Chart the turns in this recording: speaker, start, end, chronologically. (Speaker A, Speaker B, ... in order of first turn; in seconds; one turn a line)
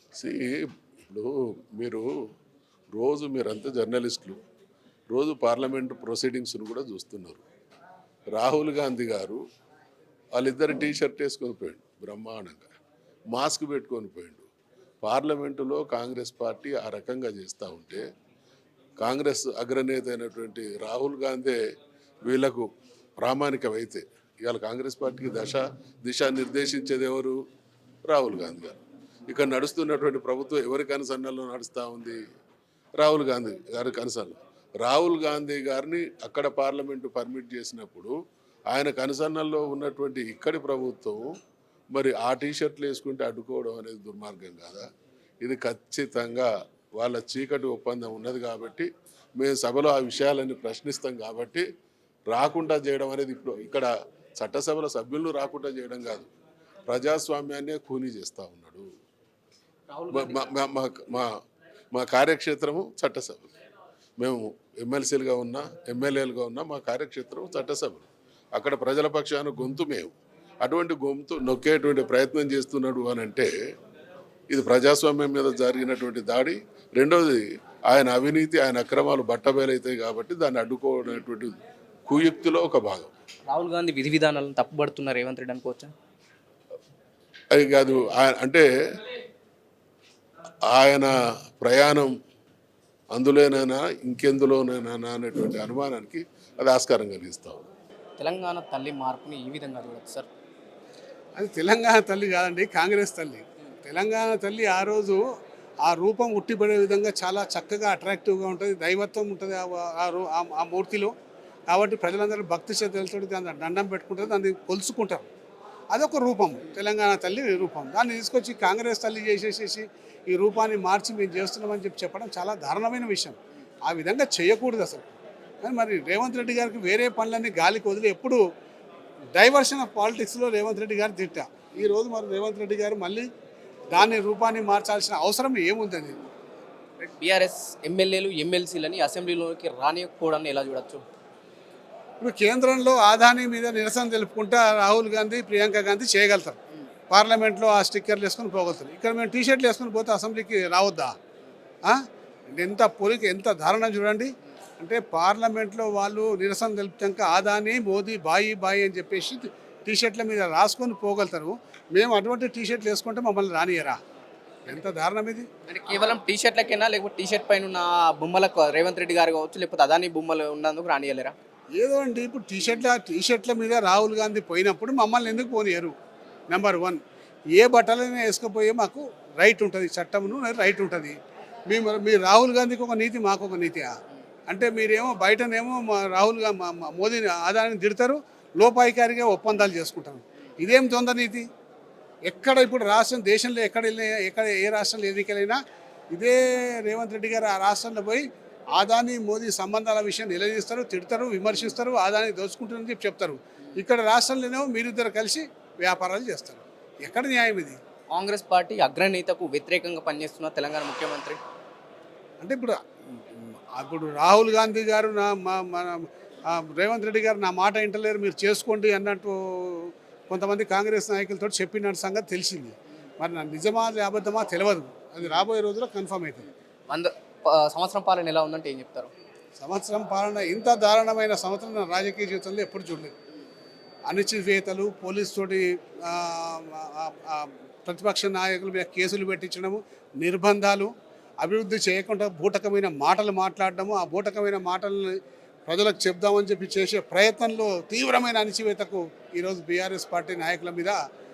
Speaker A: 0.1-2.1
Speaker A: 2.9-4.4
Speaker A: 5.1-7.4
Speaker A: 8.3-9.4
Speaker A: 10.3-12.7
Speaker A: 13.3-14.5
Speaker A: 15.0-18.0
Speaker A: 19.0-21.6
Speaker A: 22.2-22.7
Speaker A: 23.2-27.4
Speaker A: 28.1-32.2
Speaker A: 33.0-38.1
Speaker A: 38.7-41.3
Speaker A: 41.9-44.9
Speaker A: 45.4-51.6
Speaker A: 52.3-56.3
Speaker A: 56.9-58.9
Speaker B: 59.9-60.4
Speaker A: 60.1-61.3
Speaker A: 61.9-63.5
Speaker A: 64.2-73.5
Speaker A: 74.5-83.1
Speaker B: 83.5-85.9
Speaker A: 87.5-89.1
Speaker A: 90.7-92.1
Speaker A: 93.1-97.6
Speaker B: 98.2-100.3
Speaker C: 101.3-105.2
Speaker C: 105.8-111.1
Speaker C: 111.7-115.3
Speaker C: 115.9-128.4
Speaker C: 129.4-133.3
Speaker C: 133.9-136.2
Speaker B: 137.0-141.0
Speaker C: 142.2-146.6
Speaker C: 147.1-151.1
Speaker C: 152.5-164.0
Speaker C: 164.7-165.5
Speaker B: 165.7-171.3
Speaker C: 171.8-175.9
Speaker C: 176.5-177.0
Speaker C: 177.6-181.2
Speaker C: 181.7-183.9
Speaker C: 184.5-191.4
Speaker C: 192.3-195.6
Speaker C: 196.1-198.2
Speaker C: 198.8-207.8
Speaker B: 208.1-211.4
Speaker C: 212.4-226.5
Speaker B: 226.9-229.1
Speaker C: 229.6-233.1
Speaker C: 234.1-240.9
Speaker C: 241.4-251.0